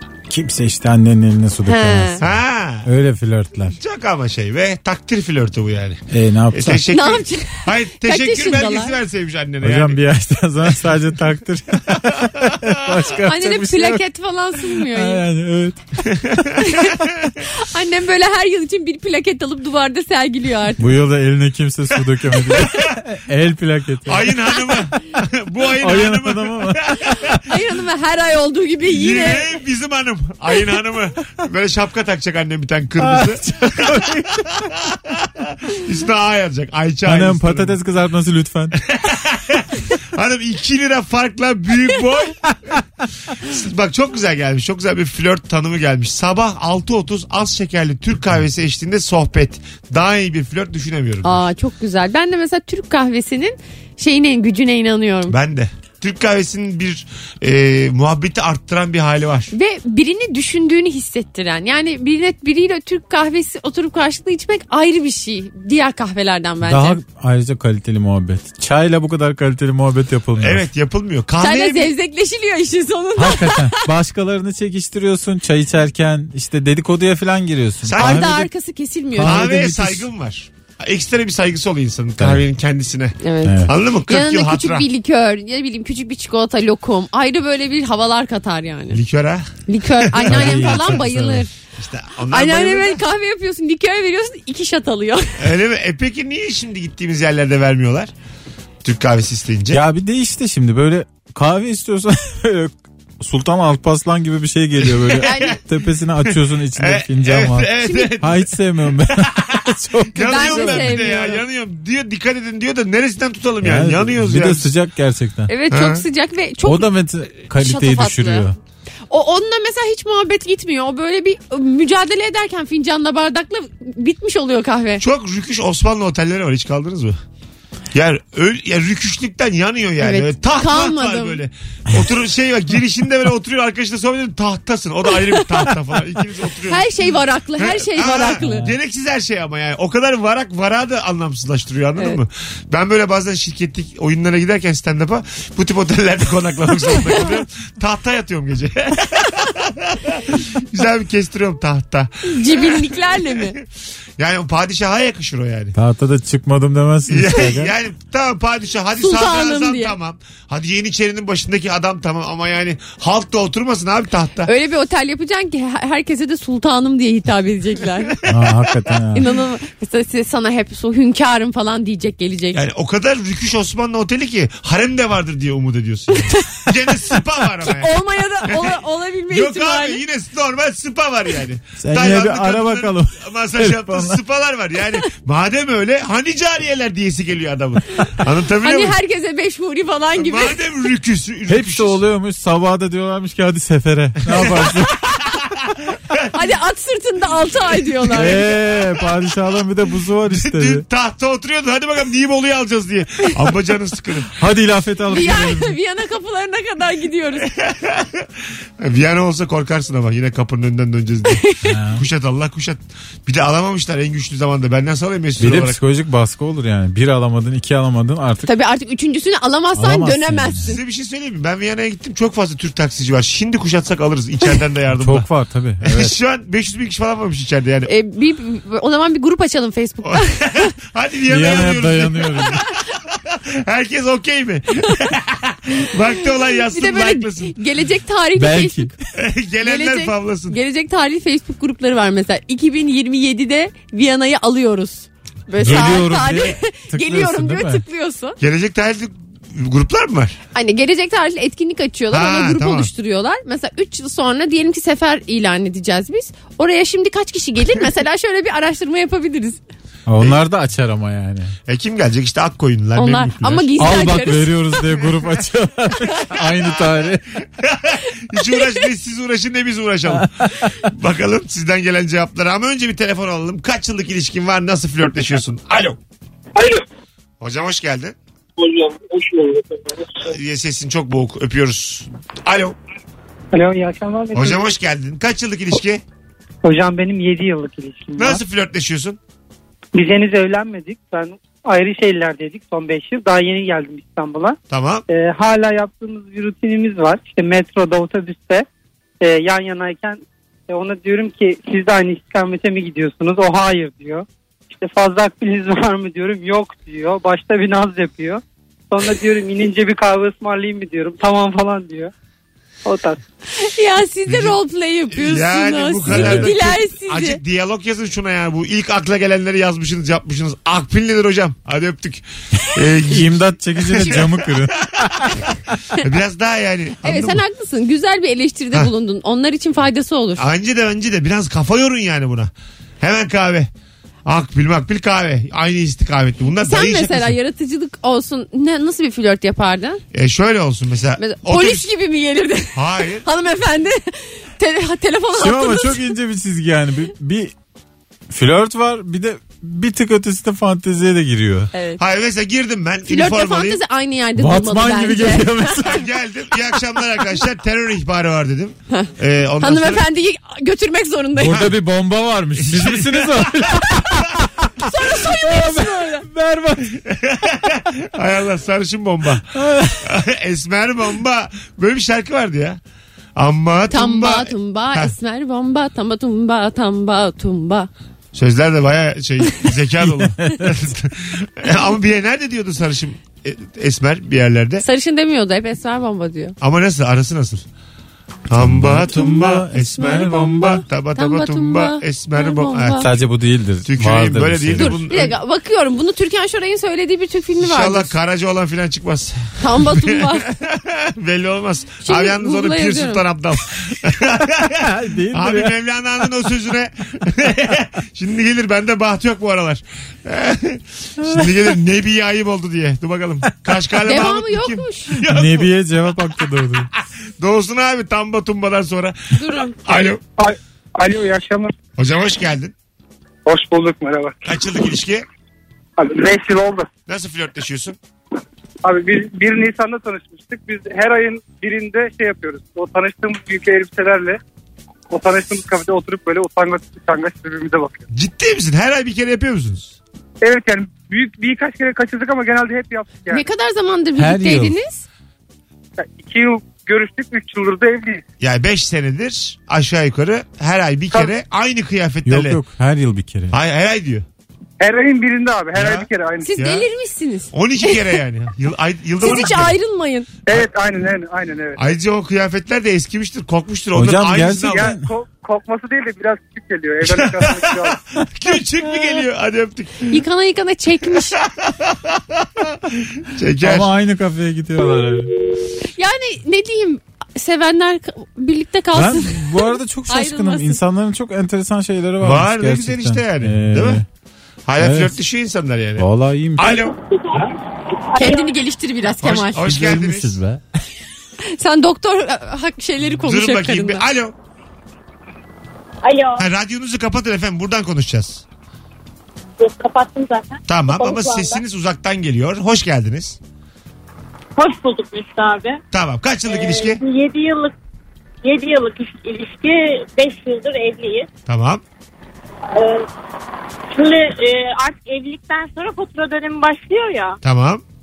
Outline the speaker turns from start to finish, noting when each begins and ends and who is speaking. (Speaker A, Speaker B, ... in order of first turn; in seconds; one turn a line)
Speaker A: 0.3-2.3
Speaker B: 1.6-2.2
Speaker C: 2.2-2.9
Speaker A: 2.8-3.8
Speaker C: 3.7-10.0
Speaker A: 6.1-6.8
Speaker B: 6.9-9.0
Speaker A: 9.6-14.0
Speaker C: 11.9-12.7
Speaker B: 13.2-15.2
Speaker A: 14.7-15.8
Speaker C: 16.1-17.3
Speaker B: 16.6-16.9
Speaker B: 17.5-20.9
Speaker A: 20.8-24.3
Speaker C: 22.6-22.9
Speaker C: 24.1-27.3
Speaker A: 25.8-26.9
Speaker B: 27.4-29.5
Speaker C: 28.9-37.8
Speaker A: 33.0-34.4
Speaker A: 37.0-38.8
Speaker C: 38.8-42.4
Speaker C: 43.4-51.4
Speaker B: 51.2-55.4
Speaker C: 55.3-59.5
Speaker B: 59.5-67.0
Speaker A: 66.6-70.6
Speaker C: 70.4-71.9
Speaker B: 71.4-73.8
Speaker A: 73.2-78.5
Speaker C: 77.8-78.3
Speaker B: 78.0-79.5
Speaker A: 79.1-80.0
Speaker C: 79.2-84.9
Speaker B: 83.2-89.0
Speaker A: 83.4-83.7
Speaker C: 88.9-91.0
Speaker B: 89.7-91.5
Speaker A: 90.2-91.5
Speaker C: 91.8-93.0
Speaker B: 92.3-95.5
Speaker C: 95.4-98.1
Speaker C: 98.8-99.8
Speaker A: 99.7-111.0
Speaker C: 105.0-105.5
Speaker B: 105.2-105.6
Speaker C: 106.2-114.7
Speaker B: 107.8-108.1
Speaker B: 110.2-111.4
Speaker A: 113.6-115.5
Speaker B: 115.5-116.9
Speaker C: 115.7-116.0
Speaker A: 116.6-118.5
Speaker B: 117.5-118.5
Speaker B: 119.1-125.0
Speaker C: 125.0-127.2
Speaker C: 127.9-136.9
Speaker B: 130.0-131.4
Speaker B: 136.7-138.7
Speaker C: 137.6-153.6
Speaker B: 152.2-153.6
Speaker C: 154.2-155.7
Speaker A: 155.8-157.7
Speaker C: 157.1-164.5
Speaker B: 159.0-159.9
Speaker B: 164.4-168.2
Speaker A: 168.3-169.3
Speaker B: 169.1-172.6
Speaker C: 172.5-177.9
Speaker B: 177.6-180.0
Speaker C: 178.5-189.0
Speaker A: 181.8-184.2
Speaker B: 188.6-190.6
Speaker C: 190.2-192.0
Speaker A: 191.5-195.1
Speaker C: 194.3-194.7
Speaker C: 195.6-196.3
Speaker B: 196.3-198.4
Speaker A: 198.1-200.8
Speaker C: 200.3-204.3
Speaker A: 204.3-205.8
Speaker B: 205.1-207.5
Speaker C: 207.4-208.3
Speaker C: 208.8-215.8
Speaker A: 211.6-212.0
Speaker A: 215.4-218.5
Speaker B: 218.4-220.8
Speaker A: 219.8-220.7
Speaker C: 220.6-225.3
Speaker A: 225.0-226.1
Speaker C: 225.8-227.9
Speaker B: 227.9-230.7
Speaker C: 230.0-237.6
Speaker A: 231.3-232.6
Speaker B: 236.5-238.9
Speaker A: 238.3-238.9
Speaker C: 239.2-240.6
Speaker B: 239.6-248.4
Speaker A: 245.6-247.8
Speaker C: 248.4-250.4
Speaker B: 250.5-259.6
Speaker C: 252.1-252.9
Speaker A: 260.1-261.5
Speaker C: 261.7-263.7
Speaker B: 262.9-264.6
Speaker A: 263.8-267.2
Speaker C: 267.6-276.0
Speaker A: 270.2-270.7
Speaker C: 277.4-278.1
Speaker C: 280.2-282.8
Speaker D: 283.5-284.6
Speaker C: 284.3-286.0
Speaker D: 286.6-288.4
Speaker C: 288.2-289.2
Speaker D: 289.9-294.6
Speaker C: 294.7-295.0
Speaker D: 295.1-298.6
Speaker D: 299.2-312.1
Speaker D: 312.8-313.2
Speaker B: 313.5-317.4
Speaker C: 314.3-314.6
Speaker C: 315.1-325.4
Speaker A: 316.1-316.5
Speaker A: 323.1-325.4
Speaker C: 326.0-327.4
Speaker B: 327.0-330.4
Speaker C: 330.4-333.7
Speaker C: 334.2-337.4
Speaker B: 336.6-340.0
Speaker C: 340.1-341.9
Speaker B: 341.2-346.1
Speaker C: 342.7-343.2
Speaker A: 345.4-347.5
Speaker A: 348.3-351.7
Speaker B: 351.7-352.0
Speaker C: 352.0-353.8
Speaker B: 353.1-355.8
Speaker A: 354.4-356.0
Speaker C: 355.8-360.1
Speaker B: 358.9-361.7
Speaker A: 361.4-367.0
Speaker C: 362.6-363.6
Speaker B: 364.8-366.2
Speaker C: 366.9-369.5
Speaker A: 369.5-370.1
Speaker C: 370.0-372.8
Speaker C: 373.4-375.1
Speaker B: 373.9-377.9
Speaker C: 378.3-384.8
Speaker A: 380.2-380.7
Speaker B: 384.8-386.6
Speaker C: 386.6-387.6
Speaker C: 388.5-393.0
Speaker A: 388.6-390.8
Speaker B: 389.9-393.1
Speaker A: 393.0-395.1
Speaker C: 393.8-395.3
Speaker B: 394.8-398.1
Speaker C: 397.6-415.7
Speaker B: 399.6-400.5
Speaker B: 402.0-403.2
Speaker A: 404.8-405.7
Speaker B: 414.0-415.2
Speaker A: 415.2-416.9
Speaker C: 417.4-420.2
Speaker B: 419.4-419.8
Speaker E: 420.4-421.7
Speaker C: 422.0-422.7
Speaker E: 423.4-424.4
Speaker C: 424.4-425.2
Speaker E: 426.0-426.9
Speaker C: 427.1-428.0
Speaker E: 428.8-434.4
Speaker E: 435.1-438.0
Speaker C: 438.1-440.0
Speaker E: 440.4-443.4
Speaker B: 443.3-445.0
Speaker A: 444.2-444.8
Speaker E: 446.0-448.2
Speaker C: 448.4-452.6
Speaker A: 452.2-453.5
Speaker C: 453.5-454.2
Speaker E: 454.8-456.5
Speaker C: 455.7-456.9
Speaker B: 456.4-458.1
Speaker C: 457.5-459.8
Speaker B: 459.2-460.3
Speaker E: 460.5-461.8
Speaker C: 461.8-464.9
Speaker A: 463.9-465.1
Speaker E: 464.7-468.0
Speaker C: 467.0-470.2
Speaker B: 470.1-471.4
Speaker C: 471.4-473.9
Speaker A: 473.6-475.3
Speaker B: 475.9-480.8
Speaker A: 478.9-484.0
Speaker C: 482.2-484.0
Speaker C: 484.6-486.9
Speaker A: 484.8-485.1
Speaker A: 486.0-486.8
Speaker F: 487.0-487.5
Speaker F: 488.1-488.5
Speaker B: 488.1-489.7
Speaker C: 489.2-490.4
Speaker A: 489.6-490.6
Speaker B: 491.5-494.0
Speaker C: 493.2-494.3
Speaker F: 496.0-496.4
Speaker C: 496.4-498.4
Speaker F: 499.6-501.6
Speaker C: 500.7-503.4
Speaker F: 504.6-505.8
Speaker C: 505.9-507.0
Speaker F: 506.5-507.7
Speaker F: 508.4-511.3
Speaker C: 511.4-511.8
Speaker F: 512.7-513.0
Speaker F: 513.9-517.4
Speaker C: 517.4-517.8